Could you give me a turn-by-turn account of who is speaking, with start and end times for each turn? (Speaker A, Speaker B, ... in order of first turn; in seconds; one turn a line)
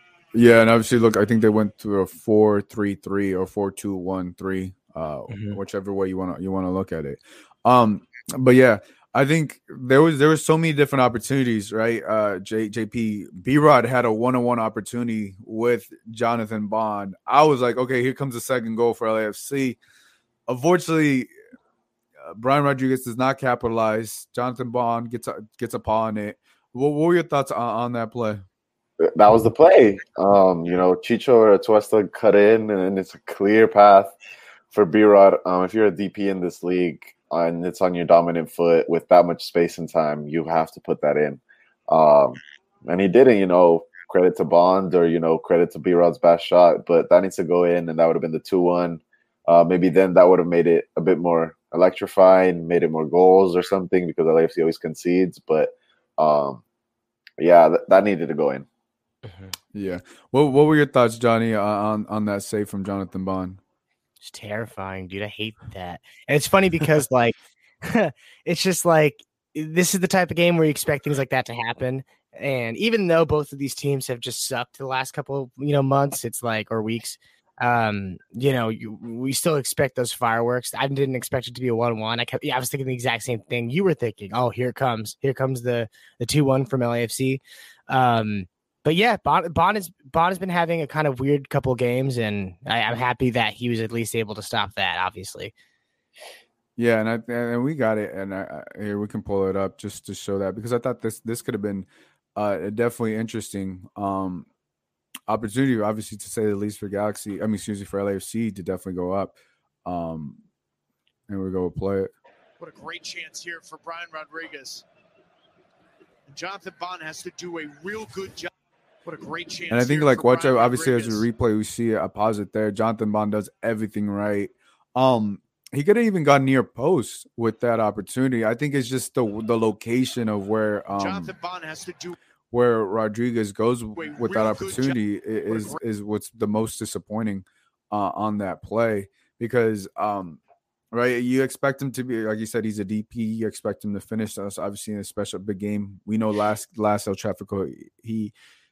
Speaker A: 0.3-19.8
Speaker B: 5.3-5.6
Speaker A: 20.5-21.3
Speaker A: 22.2-28.4
Speaker C: 29.0-34.1
Speaker C: 34.7-56.6
Speaker C: 57.4-58.7
Speaker B: 59.2-59.5
Speaker A: 59.7-63.6
Speaker B: 64.2-95.5
Speaker A: 96.8-104.5
Speaker A: 105.3-110.4
Speaker A: 111.3-112.1
Speaker D: 112.6-114.8
Speaker D: 116.3-118.5
Speaker D: 119.0-121.2
Speaker A: 119.7-131.3
Speaker D: 131.0-132.2
Speaker A: 132.5-140.4
Speaker D: 134.0-135.8
Speaker A: 140.9-148.3